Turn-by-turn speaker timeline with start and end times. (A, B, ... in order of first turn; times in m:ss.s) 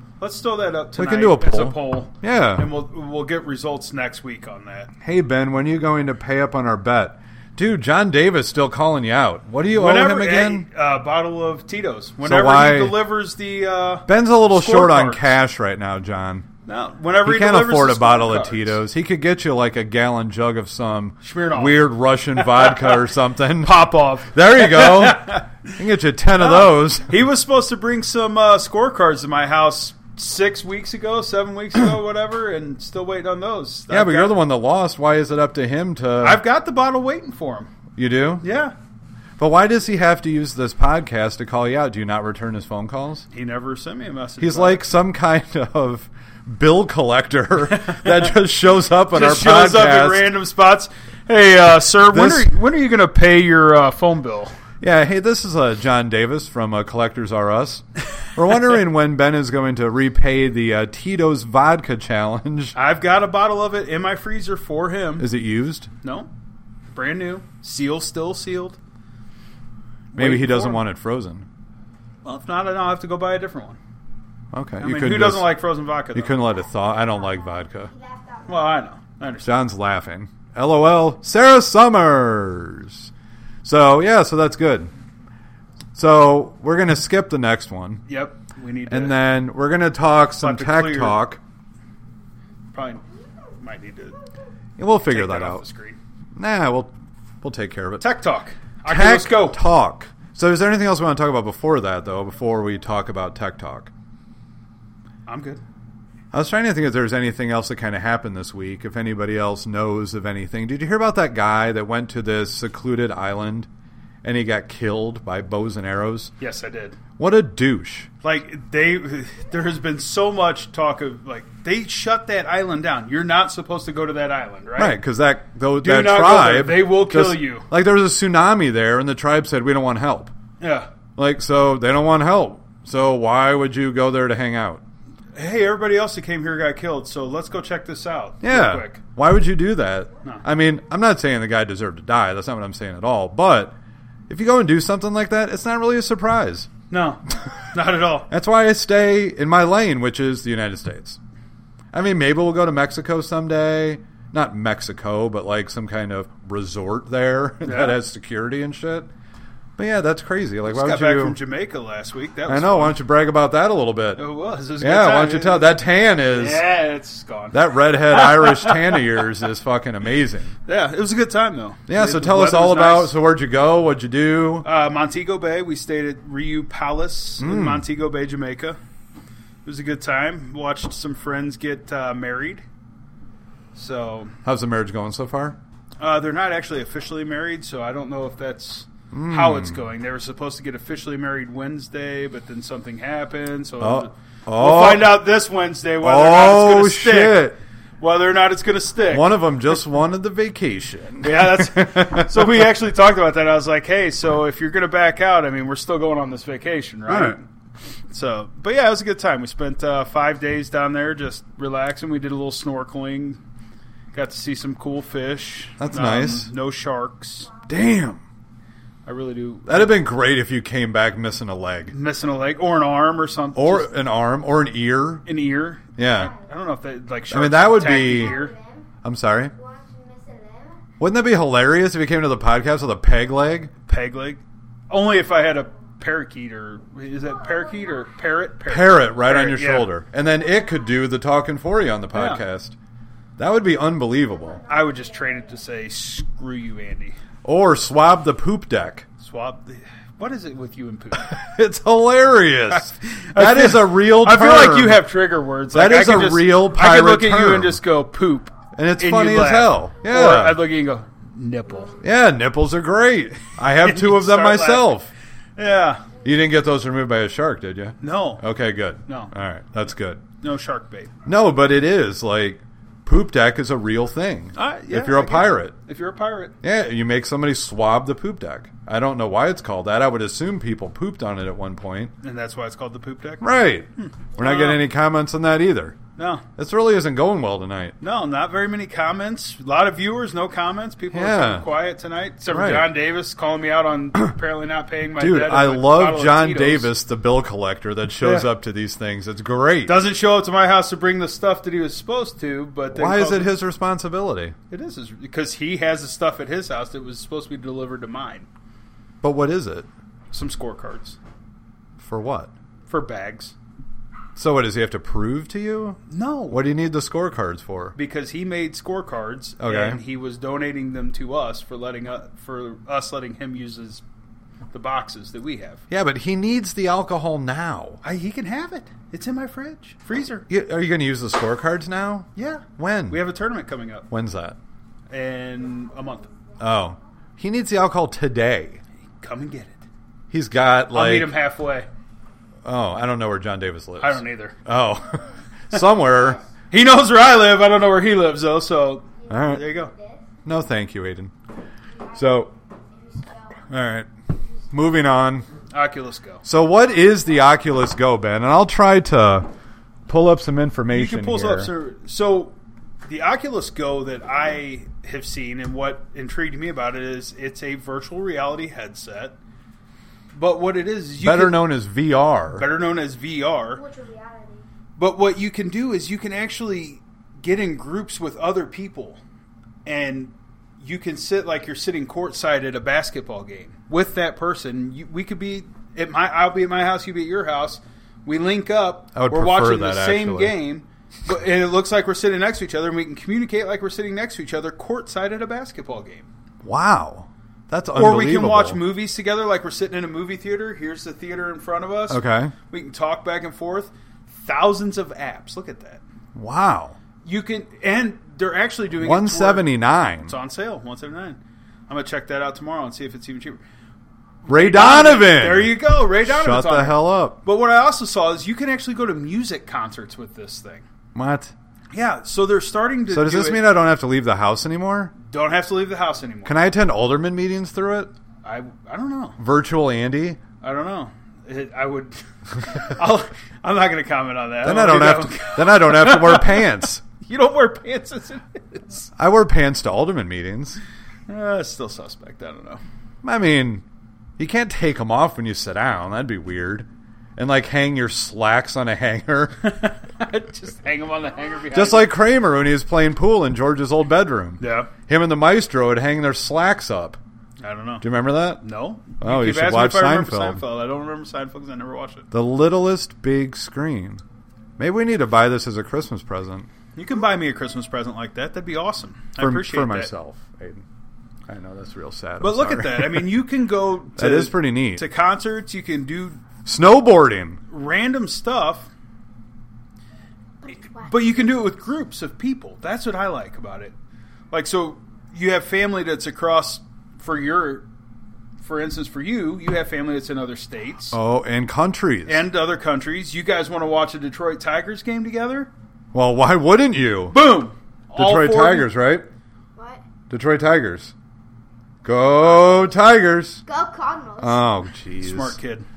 0:00.2-0:04.9 A
0:01.0-0:02.7 B
0:05.0-0:10.6 B
0:09.7-0:15.3 A
0:12.2-0:13.0 B
0:14.1-0:16.4 B
0:16.6-0:18.8 A
0:17.2-0:27.2 B
0:21.2-0:23.0 A
0:23.6-0:25.5 A
0:26.4-0:34.4 A
0:33.9-0:36.4 B
0:36.2-0:37.7 A
0:38.0-0:38.4 B
0:38.4-0:38.7 A
0:39.4-0:43.2 B
0:43.3-0:44.9 A
0:44.4-0:50.3 B
0:47.8-0:48.2 A
0:49.1-0:54.5 A
0:52.1-0:52.5 B
0:54.8-1:02.8 B
1:02.7-1:05.3 A
1:05.2-1:05.9 B
1:06.0-1:06.3 A
1:06.9-1:08.8 A
1:10.1-1:10.8 A
1:10.2-1:11.4 B
1:12.2-1:13.8 A
1:14.5-1:15.6 B
1:14.8-1:16.4 A
1:16.1-1:17.9 B
1:16.9-1:18.8 C
1:18.5-1:19.6 A
1:19.4-1:23.1 B
1:23.6-1:24.9 B
1:25.9-1:28.0 B
1:28.1-1:29.2 A
1:28.9-1:31.4 B
1:30.4-1:31.2 A
1:32.7-1:33.0 A
1:33.6-1:34.2 A
1:34.8-1:35.6 B
1:35.1-1:36.0 A
1:36.4-1:38.0 B
1:38.0-1:39.6 A
1:38.9-1:43.9 B
1:45.3-1:45.6 A
1:46.3-1:53.7 B
1:54.2-1:56.3 B
1:56.4-1:57.0 A
1:57.2-1:58.1 B
1:58.2-2:05.0 A
2:04.8-2:10.3 B
2:05.8-2:07.6 A
2:10.6-2:10.9 A
2:11.2-2:14.8 B
2:15.3-2:19.0 A
2:18.4-2:23.7 B
2:24.3-2:26.7 B
2:26.9-2:28.3 A
2:28.3-2:31.2 B
2:31.9-2:39.1 B
2:37.6-2:38.0 A
2:39.8-2:41.4 B
2:40.6-2:43.0 A
2:42.5-2:44.2 B
2:44.2-2:45.7 A
2:44.8-2:46.7 B
2:46.3-2:49.1 A
2:47.5-2:50.5 B
2:50.6-2:53.1 A
2:51.9-2:54.6 B
2:54.6-2:58.8 A
2:57.4-2:57.8 B
2:59.6-3:02.6 A
3:03.7-3:04.3 A
3:04.4-3:05.6 B
3:06.0-3:17.4 A
3:09.1-3:09.8 B
3:13.8-3:15.2 B
3:16.0-3:17.6 B
3:18.0-3:19.4 A
3:19.1-3:22.6 B
3:21.2-3:27.4 A
3:27.1-3:27.4 B
3:28.1-3:33.4 A
3:34.1-3:37.5 A
3:35.8-3:36.5 B
3:37.7-3:38.2 B
3:39.0-3:40.0 A
3:39.7-3:41.9 B
3:41.9-3:43.9 A
3:43.5-3:45.2 B
3:45.2-3:48.5 A
3:46.0-3:46.3 B
3:47.3-3:48.5 B
3:47.8-3:48.9 C
3:49.0-3:49.5 B
3:49.5-3:50.8 C
3:51.0-3:53.7 B
3:53.9-3:59.9 A
3:57.2-3:58.3 C
3:58.7-4:02.8 B
4:02.1-4:02.4 A
4:03.4-4:04.6 B
4:04.3-4:05.6 C
4:04.7-4:07.2 A
4:07.4-4:09.0 B
4:09.2-4:11.4 A
4:11.1-4:15.0 B
4:12.7-4:22.0 A
4:15.7-4:17.8 B
4:18.7-4:20.6 B
4:22.0-4:25.1 B
4:23.7-4:25.0 A
4:25.6-4:26.0 A
4:26.2-4:30.2 B
4:28.0-4:28.4 A
4:29.0-4:29.3 A
4:30.4-4:31.1 A
4:31.2-4:35.7 B
4:34.5-4:36.6 A
4:36.6-4:42.1 B
4:42.2-4:44.8 A
4:43.4-4:46.0 B
4:46.2-4:46.4 A
4:46.6-4:48.0 B
4:48.0-4:56.9 A
4:51.1-4:51.6 B
4:52.5-4:52.9 B
4:55.2-5:00.0 B
4:58.2-4:58.5 A
4:59.8-5:03.6 A
5:02.9-5:04.6 B
5:04.7-5:08.5 A
5:09.2-5:09.9 B
5:10.3-5:11.2 A
5:12.0-5:12.5 B
5:12.9-5:13.5 A
5:14.4-5:18.0 B
5:16.1-5:16.6 A
5:18.0-5:24.0 A
5:19.6-5:20.0 B
5:24.7-5:25.8 A
5:25.9-5:28.0 B
5:28.0-5:30.4 A
5:30.5-5:33.2 B
5:32.3-5:34.0 A
5:34.1-5:34.6 B
5:35.1-5:36.3 A
5:36.3-5:36.6 C
5:36.6-5:38.8 B
5:39.2-5:39.8 A
5:40.3-5:41.3 B
5:40.9-5:41.9 A
5:42.6-5:46.4 B
5:44.0-5:44.6 A
5:46.1-5:46.4 C
5:46.7-5:49.9 A
5:49.2-5:50.4 C
5:49.3-5:49.6 B
5:50.4-5:51.3 B
5:51.9-5:53.7 C
5:52.1-5:52.5 B
5:53.7-5:54.1 B
5:54.7-5:55.4 B
5:55.7-5:56.4 A
5:56.4-5:59.5 B
6:00.1-6:01.7 B
6:00.9-6:09.4 A
6:10.3-6:11.6 A
6:11.2-6:12.6 B
6:12.5-6:13.8 A
6:13.7-6:14.6 C
6:15.0-6:19.2 A
6:19.8-6:36.3 A
6:29.1-6:30.5 B
6:36.6-6:38.8 B
6:37.9-6:46.0 A
6:42.1-6:42.5 B
6:46.3-6:47.0 B
6:47.2-6:49.7 A
6:49.0-6:50.3 B
6:50.2-6:53.6 A
6:54.4-7:00.8 A
6:54.5-6:57.4 B
7:01.1-7:01.5 B
7:01.9-7:03.6 A
7:03.1-7:05.1 B
7:05.2-7:06.6 A
7:06.4-7:08.1 B
7:08.4-7:09.4 A
7:09.4-7:10.4 B
7:10.6-7:19.1 A
7:14.6-7:17.0 B
7:19.2-7:20.8 B
7:21.3-7:22.8 A
7:23.2-7:23.8 B
7:24.4-7:29.6 B
7:29.6-7:32.1 A
7:31.7-7:37.2 B
7:34.6-7:34.9 A
7:37.6-7:38.0 A
7:38.0-7:38.6 B
7:38.6-7:42.3 A
7:39.2-7:40.6 B
7:42.3-7:44.2 B
7:44.8-7:46.7 B
7:47.0-7:50.1 A
7:49.4-7:50.8 B
7:51.5-7:53.4 B
7:52.4-7:56.4 A
7:54.2-7:55.0 B
7:56.6-7:57.6 B
7:57.7-7:58.9 A
8:00.6-8:01.6 C
8:01.0-8:03.9 A
8:04.5-8:07.8 A
8:08.6-8:11.2 A
8:11.1-8:12.4 B
8:12.2-8:15.7 A
8:16.1-8:17.4 B
8:17.3-8:18.9 A
8:18.1-8:19.3 B
8:19.7-8:20.0 C
8:20.3-8:21.1 B
8:22.0-8:23.6 B
8:23.6-8:24.7 C
8:24.4-8:25.6 B
8:25.2-8:25.8 A